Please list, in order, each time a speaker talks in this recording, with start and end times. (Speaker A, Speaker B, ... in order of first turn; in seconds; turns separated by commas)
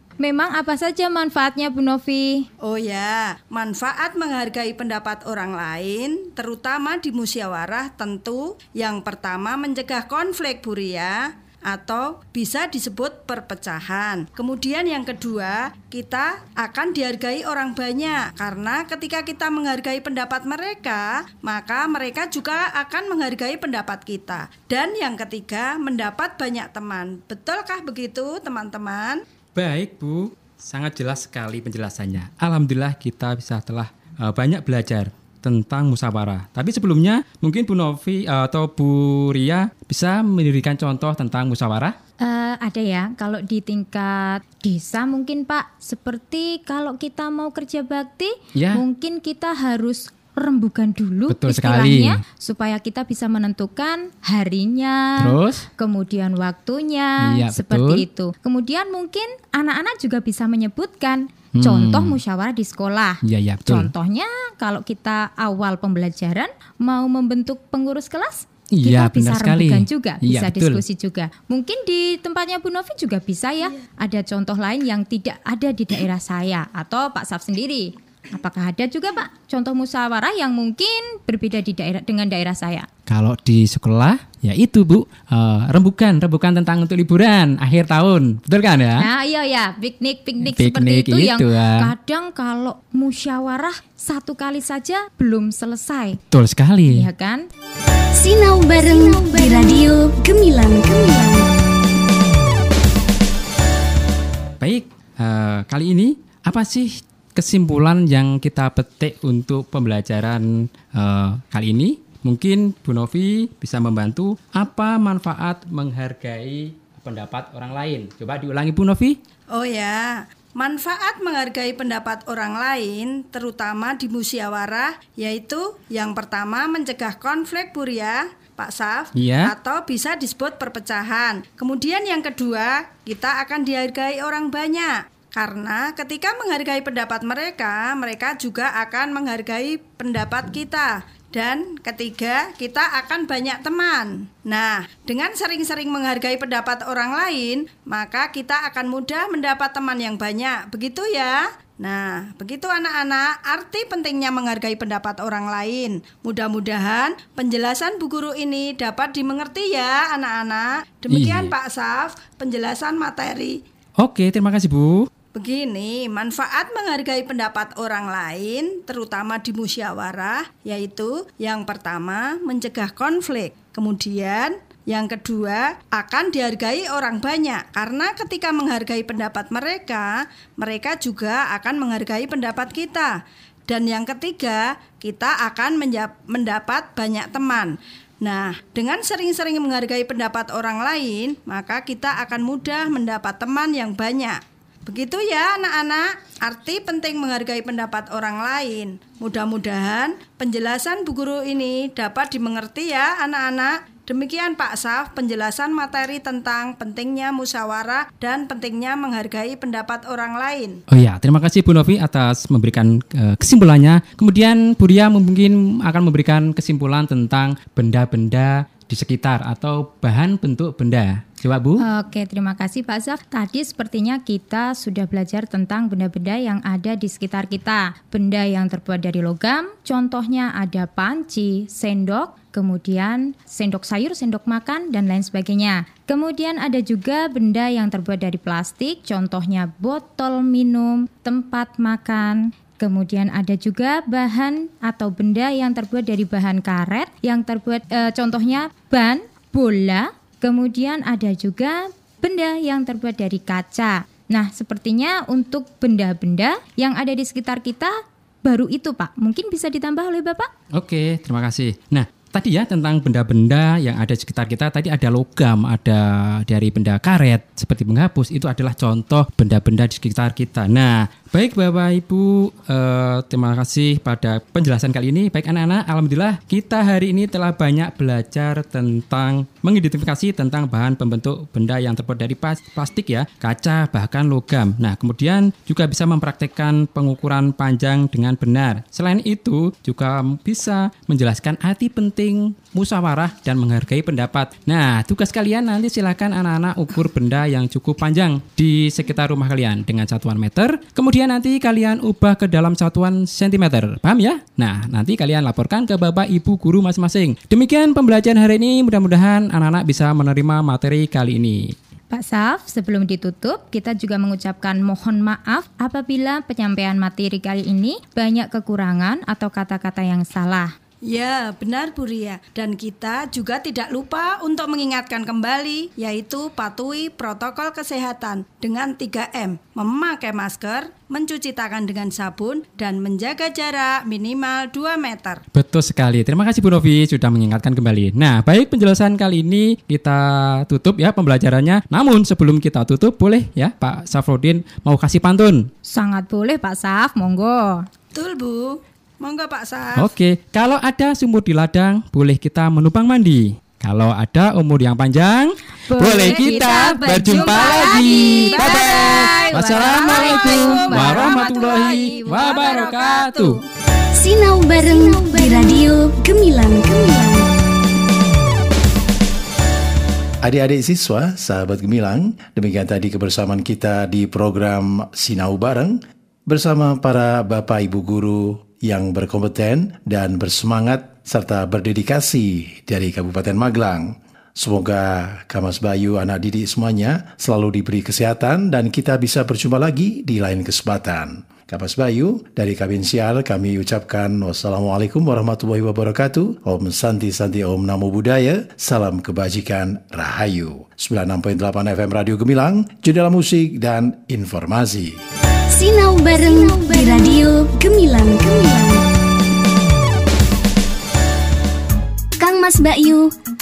Speaker A: 0.2-2.5, Speaker B: 2.6-29.2, Speaker C: 29.6-42.0, Speaker A: 42.2-82.9, Speaker C: 48.6-48.8, Speaker C: 51.3-52.2, Speaker C: 55.2-55.7, Speaker C: 57.2-58.0, Speaker C: 61.6-62.2, Speaker C: 63.2-63.9, Speaker C: 68.8-70.8, Speaker C: 83.1-89.1, Speaker A: 89.0-96.2, Speaker C: 90.4-91.9, Speaker C: 96.3-97.1, Speaker A: 96.9-97.5, Speaker D: 98.1-101.5, Speaker C: 104.6-119.2, Speaker B: 119.5-163.6, Speaker C: 129.2-129.5, Speaker C: 161.1-161.5, Speaker C: 164.0-165.1, Speaker B: 165.3-183.2, Speaker B: 183.7-210.8, Speaker C: 210.9-221.8, Speaker A: 221.8-260.5, Speaker C: 260.7-311.7, Speaker A: 312.1-320.7, Speaker B: 321.1-335.4, Speaker C: 335.5-345.7, Speaker A: 345.9-347.9, Speaker B: 348.1-350.1, Speaker C: 350.0-363.6, Speaker A: 355.9-361.5, Speaker B: 356.2-363.6, Speaker D: 364.1-367.4, Speaker E: 370.4-405.2, Speaker D: 405.7-409.0, Speaker D: 412.4-413.3